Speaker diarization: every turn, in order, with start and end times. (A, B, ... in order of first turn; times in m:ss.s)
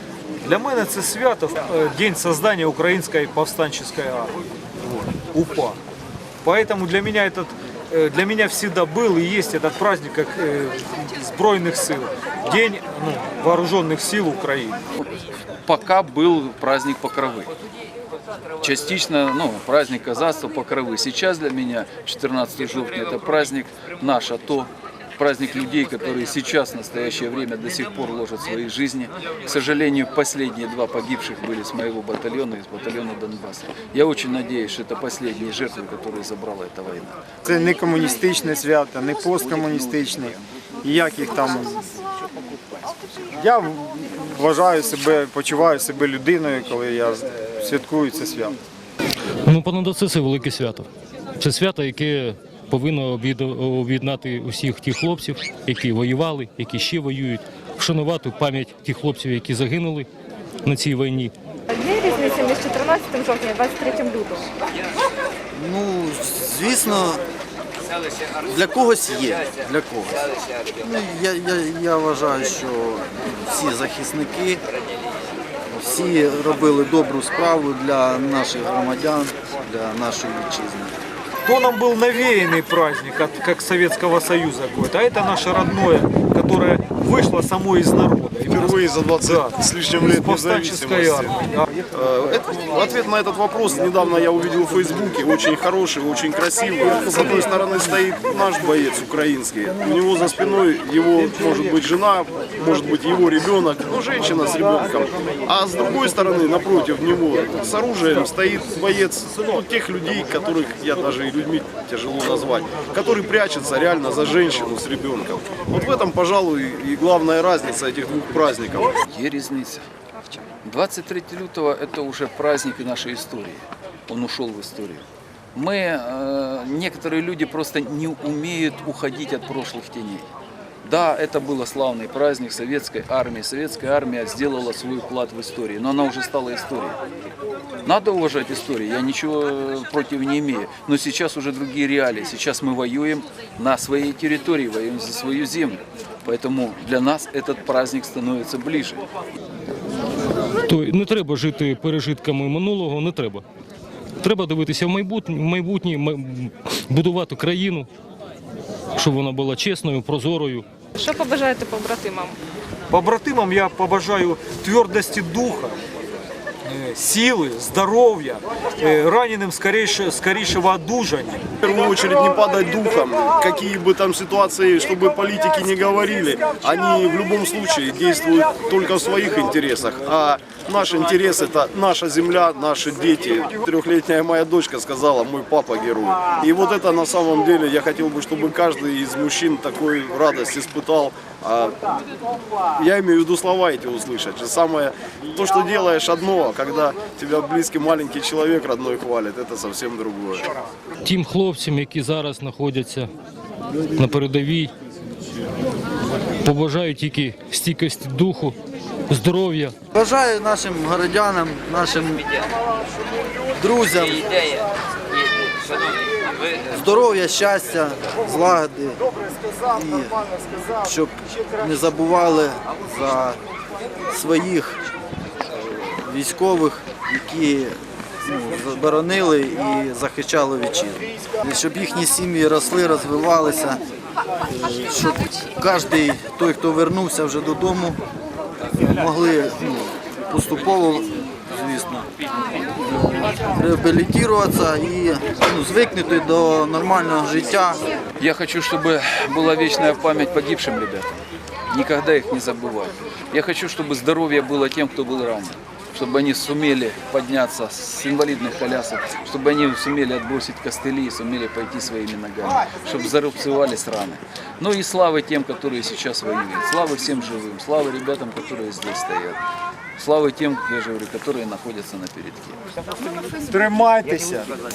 0:00.4-0:05.8 A
0:06.4-0:14.8 A
0:15.7-0:17.5 B
0:18.6-0:37.2 B
0:37.4-0:41.8 C
0:39.3-0:40.4 B
0:41.0-0:41.7 B
0:43.4-0:48.6 C
0:49.4-0:50.9 D
0:51.4-1:00.1 D
1:00.6-1:01.3 D
1:01.7-1:04.5 E
1:05.5-1:07.2 F
1:08.4-1:14.6 F
1:15.7-1:21.0 F
1:21.4-1:31.8 A
1:28.5-1:31.3 G
1:31.9-1:58.9 G
1:59.0-1:59.8 B
2:00.6-2:05.0 B
2:05.6-2:10.2 B
2:10.8-2:17.0 B
2:17.8-2:29.0 B
2:30.7-2:33.4 D
2:34.2-2:37.9 D
2:39.0-2:40.6 D
2:41.0-2:42.4 E
2:42.9-2:45.8 A
2:46.6-2:51.5 A
2:51.6-3:12.0 G
3:12.8-3:20.5 G
3:21.0-3:23.1 D
3:23.9-3:24.7 D
3:26.4-3:28.6 D
3:29.1-3:29.7 D
3:29.9-3:32.3 F
3:33.5-3:34.3 F
3:36.7-3:40.2 F
3:40.8-3:43.4 F
3:44.1-3:44.8 F
3:45.8-3:53.8 F
3:54.4-3:58.0 F
3:58.8-4:02.1 F
4:02.8-4:07.8 F
4:08.2-4:11.1 B
4:11.7-4:29.4 B
4:30.0-4:32.6 B
4:33.5-4:34.5 C